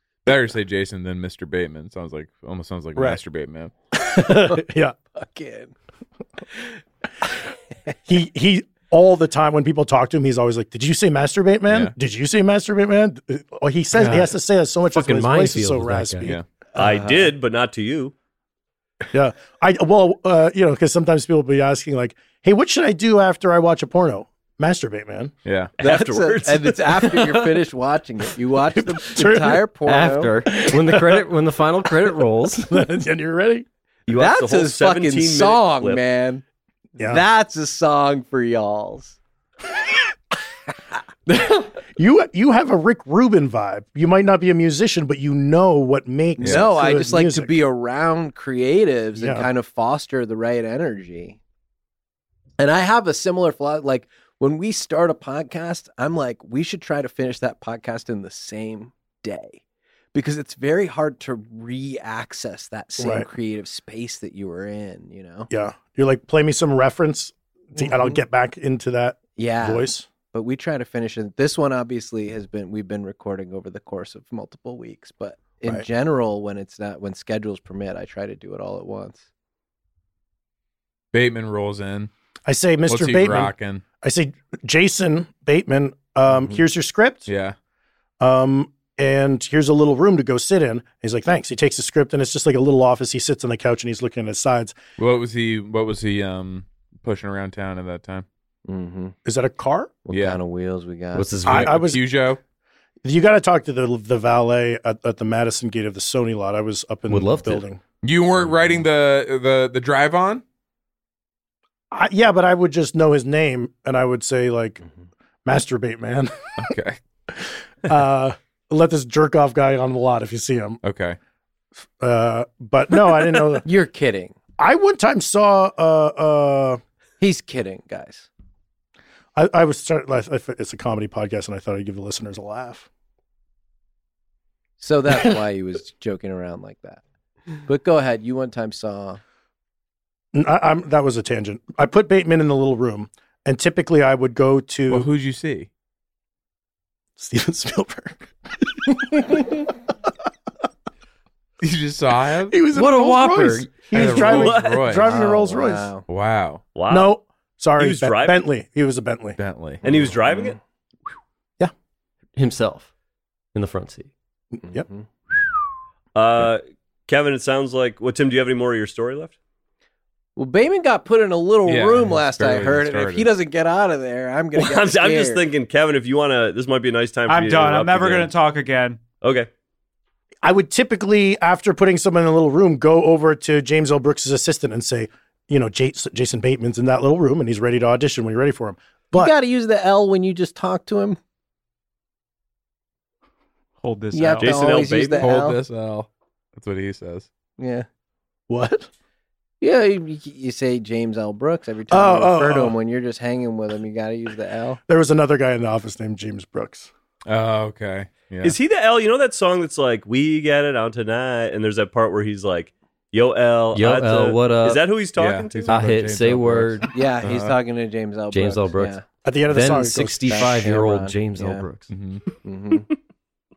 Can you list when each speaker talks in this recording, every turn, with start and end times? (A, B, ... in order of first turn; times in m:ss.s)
0:00.2-0:03.7 A
0:04.0-0:05.0 B
0:05.1-0:05.7 C
0:08.0-0:16.4 B
0:11.7-0:11.9 A
0:13.9-0:14.3 D
0:14.9-0:16.3 D
0:16.8-0:18.1 E
0:16.8-0:17.3 C
0:19.1-0:25.3 B
0:25.4-0:25.7 A
0:25.8-0:27.2 E
0:25.8-0:30.3 C
0:28.8-0:29.6 B
0:29.8-0:32.8 D
0:30.5-0:31.2 B
0:32.7-0:33.6 B
0:34.1-0:36.0 E
0:34.1-0:36.4 C
0:37.0-0:37.2 B
0:37.0-0:39.2 C
0:41.3-0:41.6 C
0:42.0-0:47.6 B
0:46.4-0:51.4 C
0:46.4-0:46.7 A
0:49.2-0:49.5 B
0:52.6-0:59.6 C
1:00.1-1:05.5 C
1:03.0-1:03.3 B
1:05.5-1:10.1 B
1:07.8-1:08.2 C
1:09.4-1:19.2 C
1:21.1-1:22.1 A
1:22.4-1:27.3 B
1:22.9-1:23.8 A
1:26.3-1:26.6 C
1:27.3-1:27.5 A
1:28.2-1:34.8 B
1:35.0-1:38.2 A
1:38.7-1:39.1 C
1:39.2-1:40.0 B
1:40.0-1:41.4 C
1:40.1-1:40.4 A
1:41.1-1:41.8 D
1:41.4-1:42.0 B
1:41.5-1:42.4 A
1:43.0-1:47.8 B
1:47.1-1:47.6 D
1:48.0-1:50.4 A
1:51.9-1:54.8 B
1:55.4-1:56.7 B
1:56.6-1:57.0 A
1:57.3-2:00.8 B
2:00.8-2:01.2 A
2:02.0-2:03.6 B
2:03.6-2:04.4 C
2:04.6-2:06.8 B
2:07.2-2:08.3 C
2:09.3-2:12.9 B
2:14.8-2:17.0 C
2:17.6-2:19.2 C
2:20.3-2:25.1 B
2:24.9-2:25.7 A
2:27.2-2:29.7 B
2:31.6-2:32.6 A
2:32.5-2:35.9 B
2:32.7-2:33.9 D
2:33.9-2:35.1 A
2:34.1-2:34.9 E
2:35.0-2:36.0 C
2:36.1-2:36.6 A
2:36.7-2:37.1 E
2:36.9-2:39.4 B
2:37.8-2:38.4 E
2:39.4-2:39.8 A
2:39.8-2:40.6 E
2:39.9-2:40.5 C
2:42.4-2:42.9 D
2:43.5-2:44.1 D
2:44.6-2:44.8 B
2:44.7-2:45.0 C
2:46.1-2:49.3 E
2:50.4-2:55.4 C
2:51.6-2:53.3 A
2:54.5-2:58.3 E
2:57.3-2:59.0 F
2:59.2-2:59.5 E
3:00.4-3:09.3 B
3:09.1-3:11.2 C
3:13.8-3:14.7 F
3:14.1-3:15.6 C
3:14.4-3:15.3 E
3:15.2-3:17.3 A
3:17.6-3:17.8 C
3:18.5-3:18.9 B
3:19.6-3:24.8 C
3:21.9-3:22.8 B
3:24.9-3:26.9 B
3:27.2-3:28.6 A
3:28.4-3:35.8 E
3:33.7-3:34.8 D
3:35.2-3:37.6 A
3:35.7-3:36.9 D
3:36.9-3:39.0 C
3:38.3-3:41.9 D
3:39.2-3:40.5 B
3:40.2-3:41.7 C
3:41.9-3:42.2 A
3:42.4-3:42.9 C